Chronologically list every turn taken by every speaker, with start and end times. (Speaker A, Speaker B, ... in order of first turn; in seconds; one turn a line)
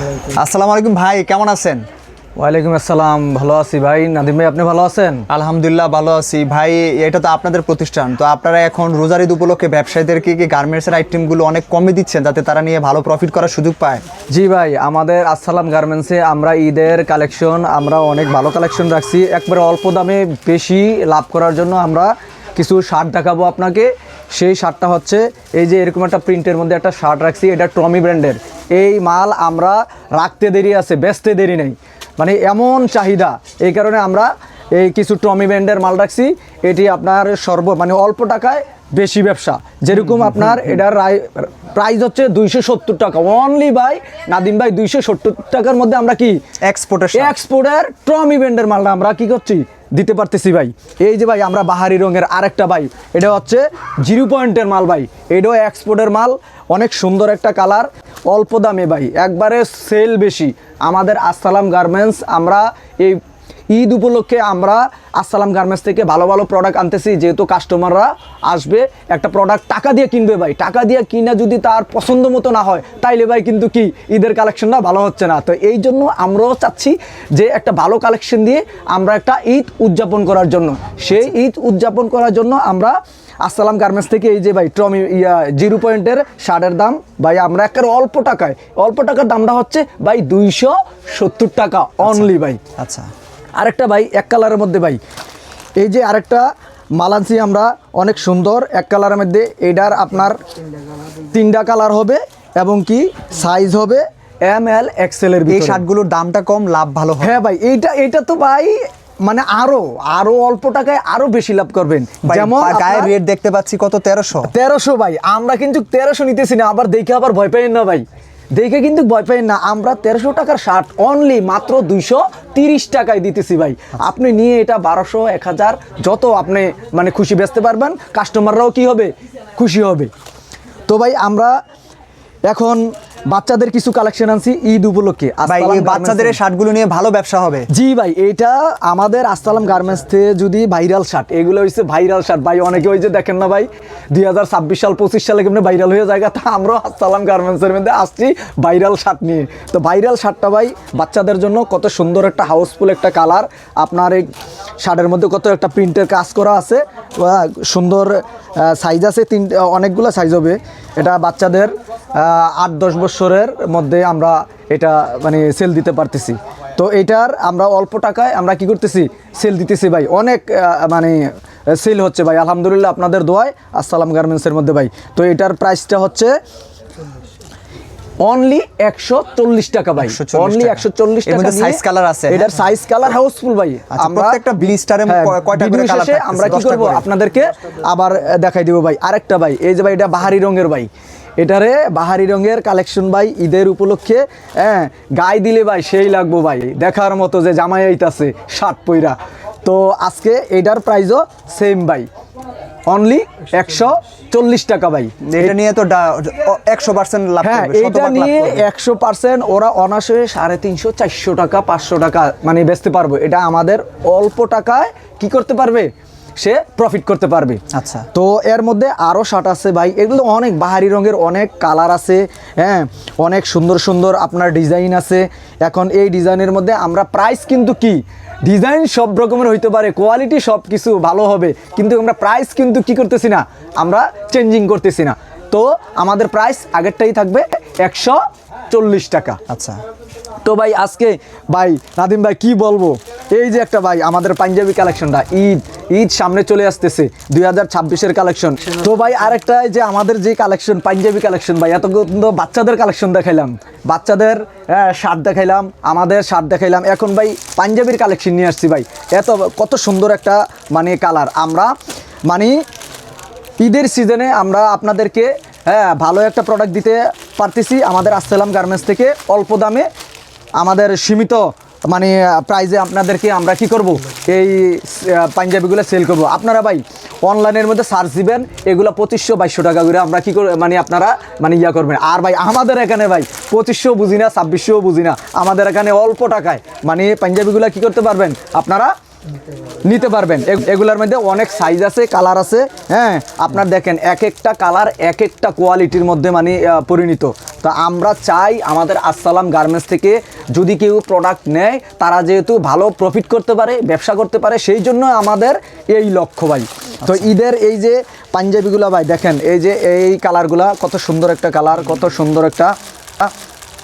Speaker A: 0.3-1.8
Speaker B: 2.4-5.2
Speaker A: 5.3-14.0
Speaker B: 14.3-46.4
Speaker A: 46.6-47.4
Speaker B: 47.1-63.2
Speaker B: 63.7-92.6
Speaker A: 92.8-93.1
Speaker B: 93.6-95.0
Speaker B: 95.8-96.5
Speaker B: 97.0-100.4
Speaker B: 101.3-105.8
Speaker A: 105.5-107.4
Speaker B: 107.2-113.1
Speaker A: 112.2-114.5
Speaker B: 114.5-130.1
Speaker B: 130.9-131.6
Speaker B: 132.5-136.4
Speaker A: 135.4-137.7
Speaker B: 137.7-154.3
Speaker B: 154.8-171.2
Speaker B: 171.8-176.3
Speaker B: 178.2-184.4
Speaker A: 180.0-182.4
Speaker A: 183.9-187.1
Speaker B: 185.1-202.1
Speaker B: 202.9-205.6
Speaker A: 205.2-208.7
Speaker B: 207.4-217.6
Speaker A: 217.7-218.1
Speaker B: 218.1-239.4
Speaker A: 239.5-239.8
Speaker B: 240.4-261.7
Speaker B: 262.3-262.6
Speaker B: 263.6-269.9
Speaker B: 270.6-288.9
Speaker B: 289.9-313.3